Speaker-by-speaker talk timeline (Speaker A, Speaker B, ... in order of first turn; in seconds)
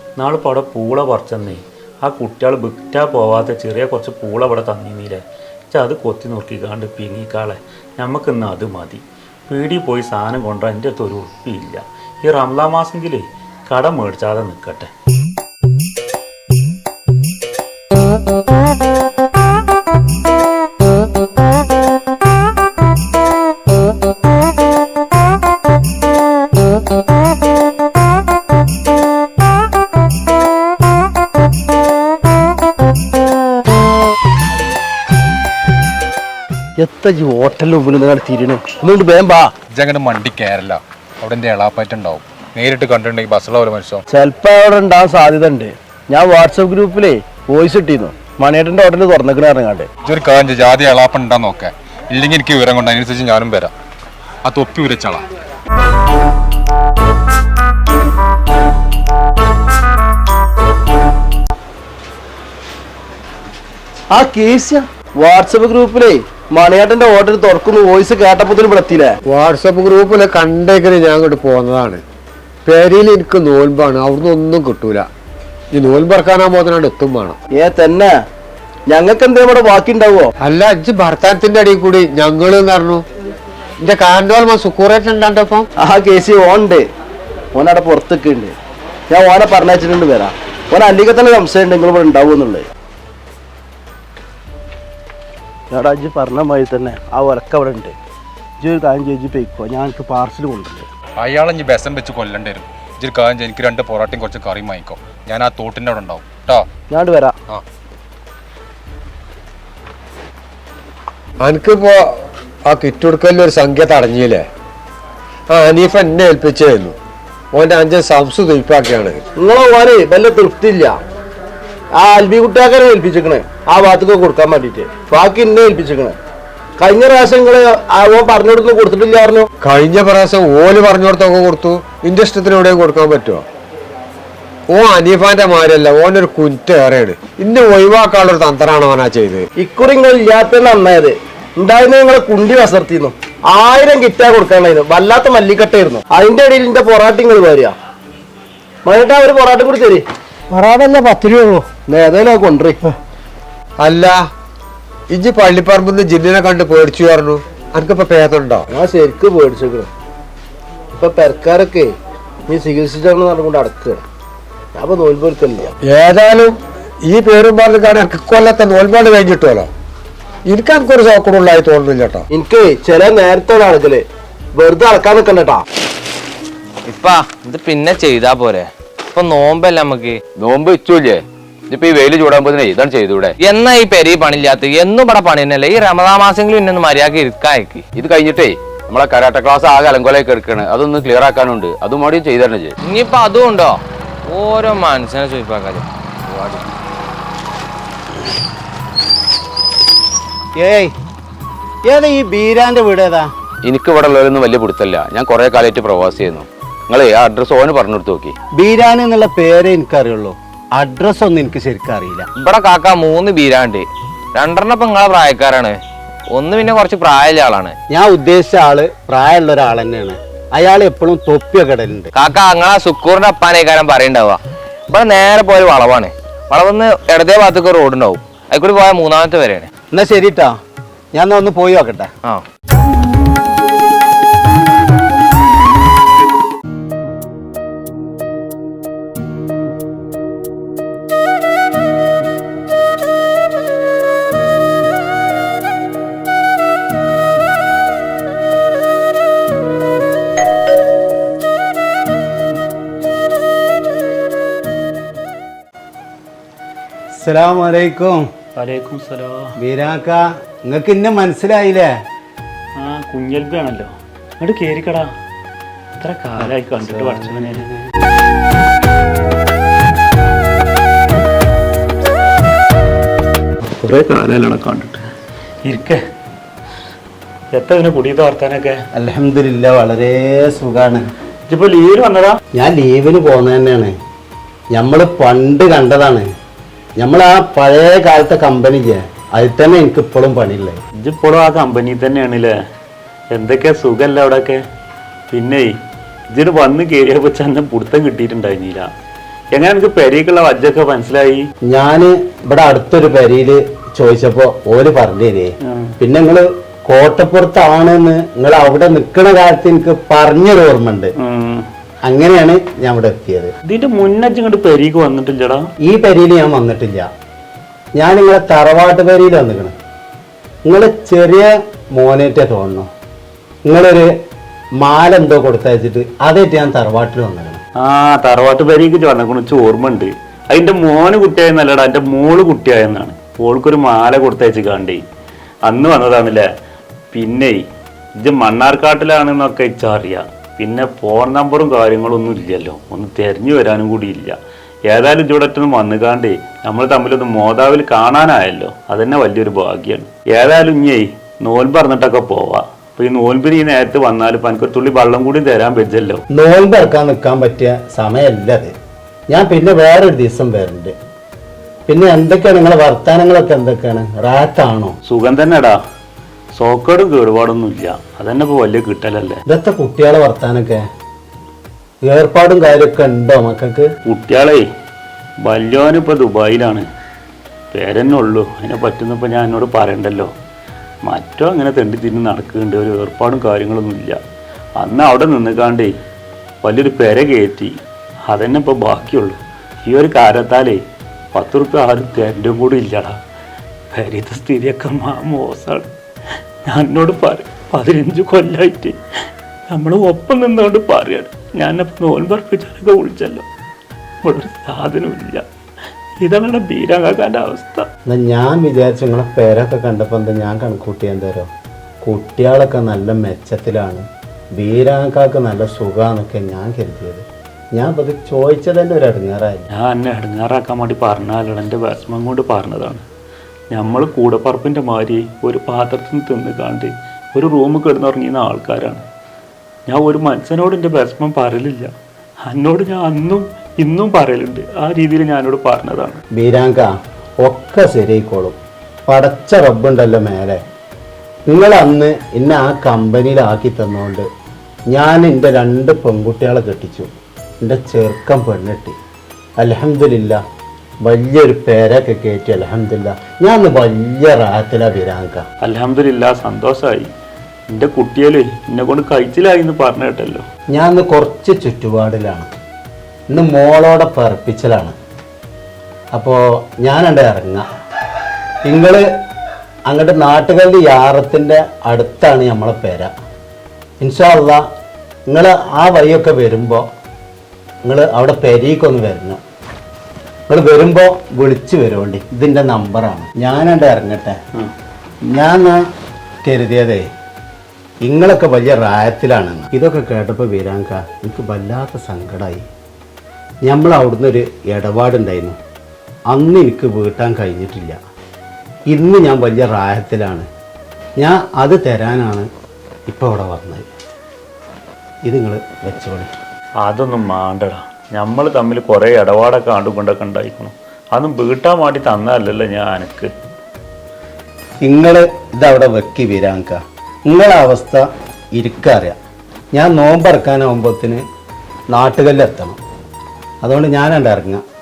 Speaker A: 0.2-14.9, 258.6-259.6, 262.8-265.1, 266.0-267.7, 273.7-275.1, 275.6-276.0, 277.5-278.8, 281.5-282.4, 291.0-292.5, 293.3-294.6, 295.3-295.7, 296.3-298.9, 299.6-301.4, 305.7-306.0, 311.2-311.7, 313.7-315.6, 327.8-335.0, 335.7-336.5, 337.1-337.6, 338.2-344.4, 344.9-356.2, 365.1-365.8, 366.6-369.4, 374.1-374.6, 375.4-376.9, 377.7-380.3, 381.1-384.2, 384.8-385.9, 386.6-387.8, 388.3-390.8, 391.3-393.2, 393.9-395.9, 396.7-399.0, 399.7-403.4, 404.2-405.4, 406.2-407.9, 419.7-423.0, 423.7-429.0, 429.9-431.9, 432.4-436.2, 455.6-457.1, 457.7-460.4, 506.8-513.3
Speaker B: 36.8-39.5, 44.1-49.9, 64.1-69.2, 77.5-78.1, 78.9-80.3, 85.8-86.8, 87.5-88.5, 89.1-92.7, 95.7-98.0, 98.6-100.9, 106.9-107.3, 119.4-120.9, 121.9-126.2, 126.8-129.5, 139.6-147.7, 148.9-150.0, 151.6-152.8, 158.7-159.9, 160.9-161.9, 162.5-164.0, 164.8-165.7, 172.3-175.6
Speaker C: 39.8-44.0, 50.1-53.7, 54.5-55.2, 101.2-106.7
Speaker D: 69.3-72.0, 72.7-75.1, 75.7-77.4, 80.4-83.0, 83.8-85.7, 111.4-112.0, 112.7-114.5, 115.5-117.0, 117.5-119.2, 129.6-133.4, 134.7-139.4, 150.6-151.5, 153.8-154.2, 155.1-158.7, 165.8-169.7, 170.5-172.2
Speaker E: 176.9-180.2, 183.4-187.9, 192.8-195.9, 212.4-217.8, 222.2-224.4, 224.9-229.7
Speaker F: 180.4-183.4, 187.9-192.8, 196.3-196.7, 203.6-208.3
Speaker G: 200.6-200.9, 201.9-203.3, 208.6-212.3, 217.9-222.1, 229.9-230.5, 231.1-232.1, 257.2-258.2, 259.6-261.9, 266.8-267.7, 278.9-281.0, 282.6-283.9, 284.7-286.3, 287.0-290.8, 301.7-311.1, 312.1-313.5, 315.9-317.1, 318.0-319.7, 320.7-322.9, 323.7-324.1, 324.8-327.6, 356.3-358.7, 359.3-360.9, 361.9-365.0, 369.5-370.8, 372.1-373.9, 408.1-411.5, 412.0-414.1, 414.6-417.2, 417.8-419.7, 436.3-438.6, 439.1-440.6, 441.5-444.3, 444.9-447.1, 447.6-448.9, 449.6-450.4, 451.1-455.4, 460.7-462.5, 463.3-464.9, 466.1-467.6, 468.7-469.0, 469.9-473.1, 474.0-474.6, 475.3-476.9, 477.9-479.4, 480.5-484.4, 485.4-485.8, 486.4-487.0, 488.1-492.6, 493.7-495.6, 496.3-498.0, 498.9-500.5, 501.2-502.5, 503.1-503.9, 505.3-506.3, 514.9-519.2, 519.8-521.2, 521.9-522.8, 523.6-524.6